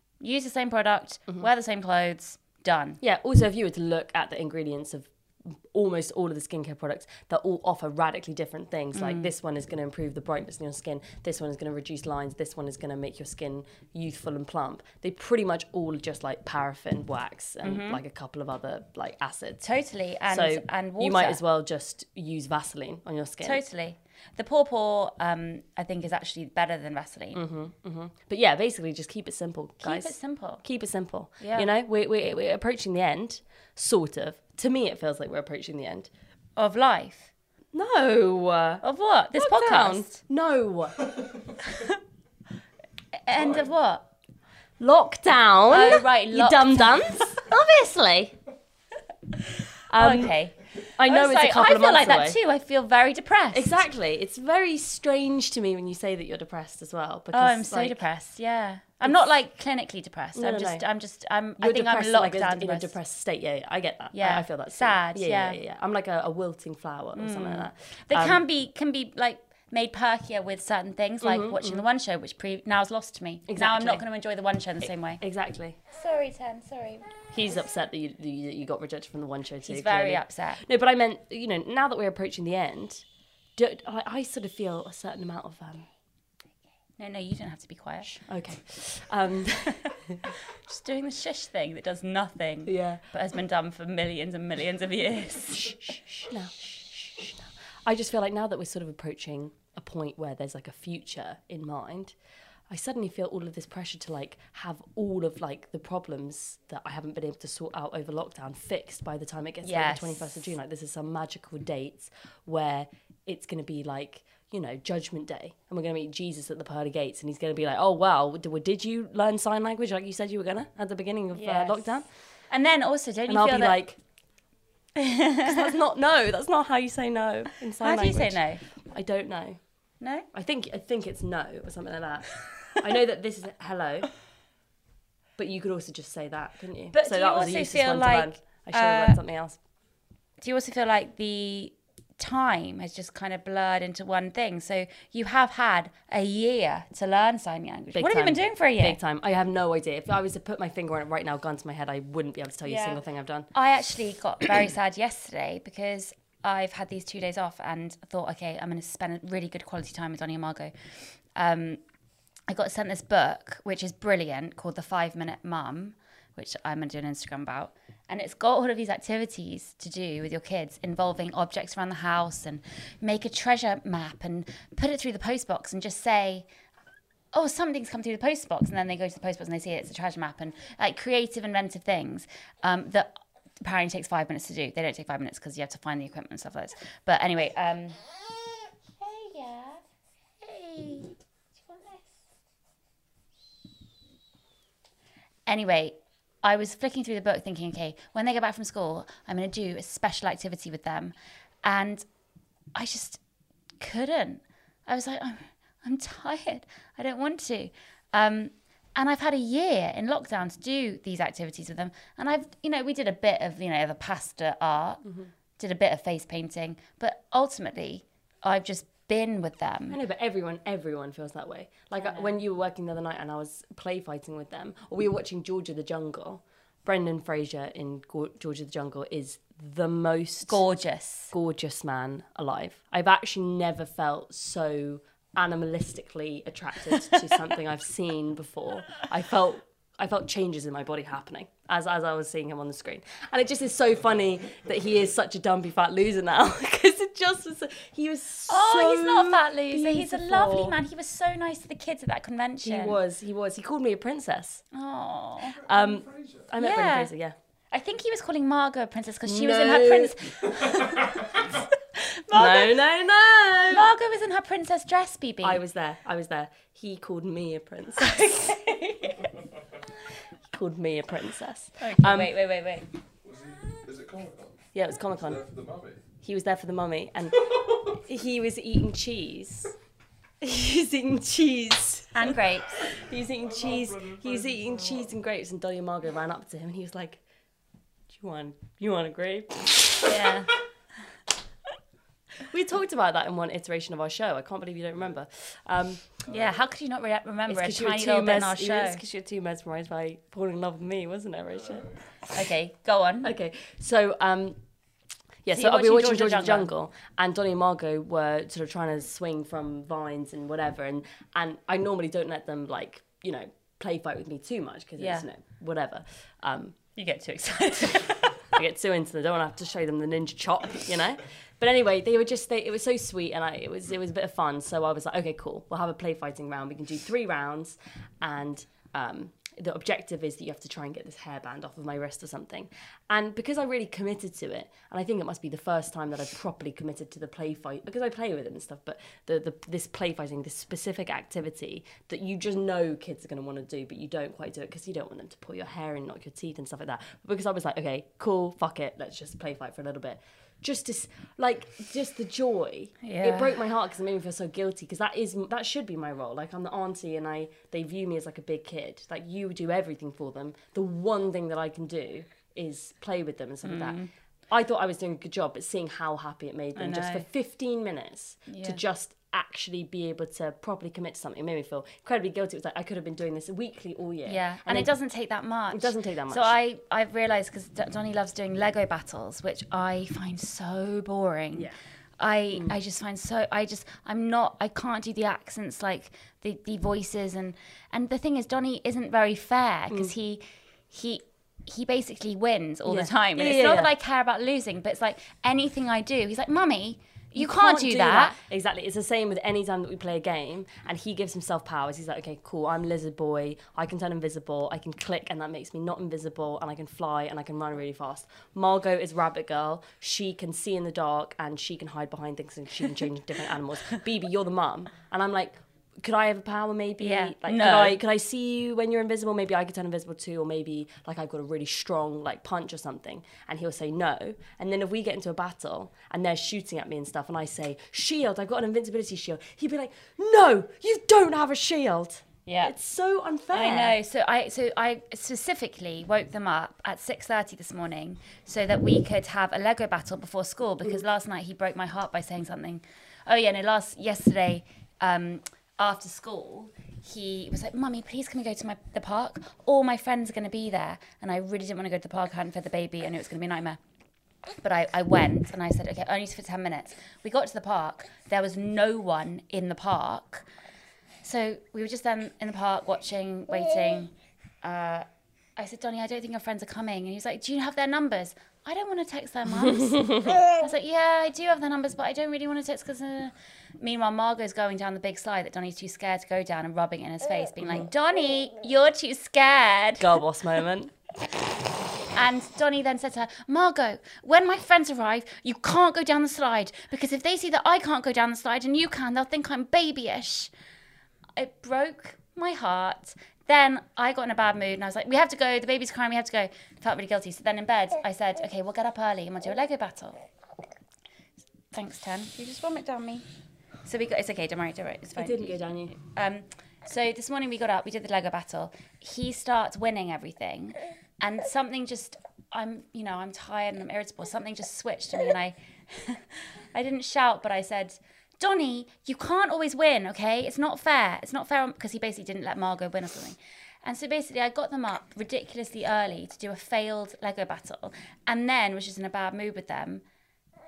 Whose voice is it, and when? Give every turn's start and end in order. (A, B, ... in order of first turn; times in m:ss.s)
0:00.2-0:03.0 A
0:03.0-0:19.6 B
0:08.9-0:09.3 A
0:17.6-0:18.0 A
0:19.6-0:21.4 A
0:20.3-0:23.6 B
0:23.4-0:27.4 A
0:27.3-0:36.1 B
0:29.8-0:30.6 A
0:31.4-0:31.7 A
0:36.6-0:37.3 A
0:37.7-0:41.5 B
0:38.8-0:40.2 A
0:41.6-0:41.9 A
0:43.2-0:44.0 A
0:44.8-0:48.4 B
0:45.7-0:47.4 A
0:49.9-0:50.4 B
0:50.0-0:53.8 A
0:51.0-0:52.4 B
0:53.5-0:58.0 B
0:57.3-1:02.9 A
1:00.3-1:00.8 B
1:01.6-1:08.4 B
1:04.1-1:05.6 A
1:07.1-1:15.2 A
1:11.2-1:11.8 B
1:13.5-1:14.0 B
1:14.8-1:15.8 B
1:15.9-1:17.1 A
1:17.3-1:23.0 B
1:19.6-1:20.6 A
1:23.6-1:25.9 B
1:27.0-1:28.2 A
1:28.0-1:30.1 B
1:29.6-1:29.9 A
1:30.5-1:35.8 A
1:32.6-1:33.0 B
1:35.6-1:42.1 B
1:42.7-2:02.1 B
1:49.6-1:50.3 A
2:01.3-2:03.8 A
2:03.3-2:04.0 B
2:05.0-2:05.5 A
2:05.4-2:14.1 B
2:07.8-2:08.6 A
2:10.0-2:10.2 A
2:15.4-2:19.6 B
2:16.9-2:19.2 A
2:20.4-2:29.0 A
2:27.9-2:33.5 B
2:32.6-2:33.0 A
2:33.5-2:41.8 A
2:42.5-2:56.4 A
2:57.3-3:08.1 A
3:09.0-3:09.8 A
3:10.4-3:12.1 A
3:15.4-3:22.0 A
3:22.7-3:23.2 A
3:23.8-3:35.0 A
3:35.0-3:35.3 B
3:35.6-3:40.0 A
3:39.9-3:50.6 B
3:41.9-3:42.3 A
3:50.5-3:51.3 A
3:51.3-4:10.8 B
4:08.5-4:13.0 A
4:12.6-4:14.6 B
4:14.7-4:15.7 A
4:15.6-4:17.4 B
4:16.6-4:17.1 A
4:17.7-4:22.8 A
4:19.2-4:20.3 B
4:22.3-4:23.9 B
4:23.7-4:25.6 A
4:25.4-4:28.5 B
4:28.0-4:29.3 A
4:30.5-4:32.4 B
4:31.8-4:32.9 A
4:33.2-4:34.5 C
4:34.7-4:35.4 B
4:35.2-4:36.0 C
4:36.2-4:39.7 B
4:40.4-4:47.2 B
4:42.1-4:42.9 A
4:48.1-4:50.1 B
4:50.0-4:50.5 A
4:52.5-4:56.2 B
4:56.2-4:59.0 A
4:57.5-5:02.0 B
5:02.3-5:03.3 A
5:03.2-5:04.6 B
5:05.4-5:16.8 B
5:05.5-5:06.7 A
5:15.0-5:15.3 A
5:17.0-5:18.4 A
5:18.5-6:04.0 B
5:53.0-5:53.6 A
6:03.6-6:04.1 A
6:04.5-6:14.9 B
6:06.8-6:07.2 A
6:08.5-6:08.8 A
6:14.2-6:38.4 A
6:15.7-6:16.5 B
6:32.9-6:33.9 B
6:37.4-7:14.0 B
6:57.0-6:58.0 A
7:12.4-7:12.7 A
7:13.5-7:33.8 A
7:34.6-7:40.5 A
7:41.2-8:00.2 A
7:49.8-7:50.2 B
8:00.0-8:00.9 B
8:02.1-8:10.5 A
8:11.4-8:20.2 A
8:21.7-8:23.2 A
8:23.8-8:50.0 A
8:25.2-8:26.0 B